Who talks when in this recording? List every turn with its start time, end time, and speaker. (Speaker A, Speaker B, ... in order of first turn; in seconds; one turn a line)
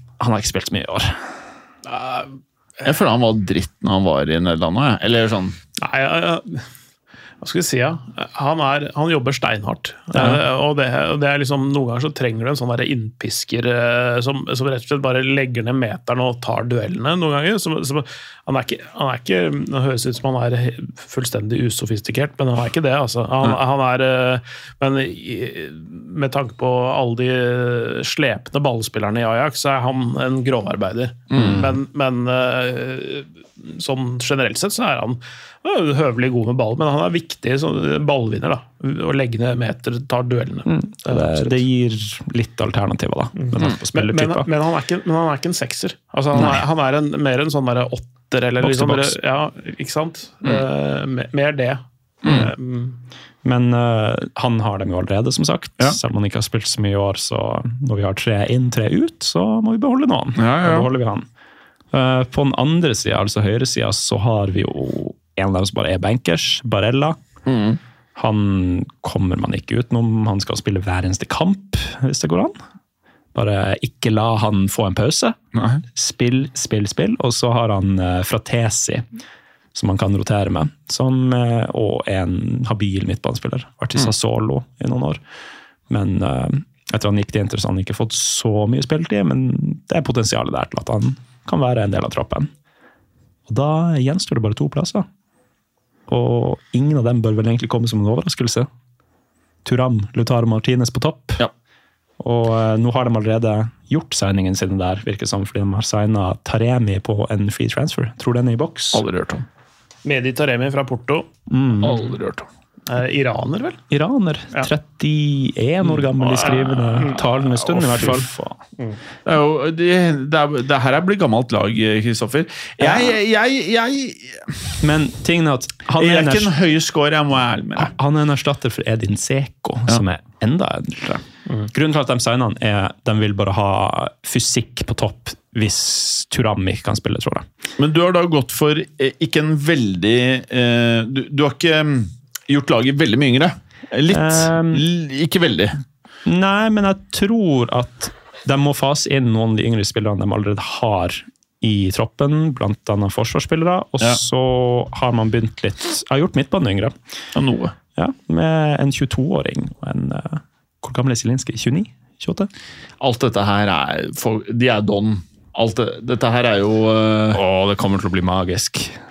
Speaker A: 0.2-1.2
Speaker B: 1.9-2.3
Speaker C: 2.8-5.6
Speaker B: 5.8-6.7
Speaker B: 7.4-41.6
Speaker A: 10.1-10.4
Speaker C: 31.3-31.7
Speaker A: 31.4-31.7
Speaker A: 40.7-44.5
Speaker B: 43.4-53.0
Speaker A: 48.6-49.2
Speaker C: 52.2-52.5
Speaker A: 53.4-61.3
Speaker C: 60.4-60.9
Speaker A: 61.9-67.2
Speaker C: 67.5-67.8
Speaker A: 68.2-72.5
Speaker A: 73.3-75.4
Speaker C: 75.5-75.8
Speaker A: 75.9-79.0
Speaker A: 79.7-85.2
Speaker A: 85.9-92.5
Speaker A: 93.5-95.1
Speaker A: 96.1-98.7
Speaker A: 99.7-101.4
Speaker A: 102.2-109.0
Speaker C: 108.9-109.5
Speaker B: 110.0-111.3
Speaker A: 111.5-112.0
Speaker C: 111.8-112.5
Speaker B: 112.9-113.8
Speaker A: 113.9-118.6
Speaker B: 116.2-117.2
Speaker C: 117.5-118.3
Speaker C: 119.2-124.5
Speaker A: 124.8-126.5
Speaker C: 125.9-127.9
Speaker A: 127.8-137.5
Speaker C: 137.8-145.8
Speaker A: 144.1-144.8
Speaker A: 146.3-156.9
Speaker C: 157.3-157.7
Speaker A: 158.0-162.5
Speaker C: 163.0-167.4
Speaker A: 167.3-169.0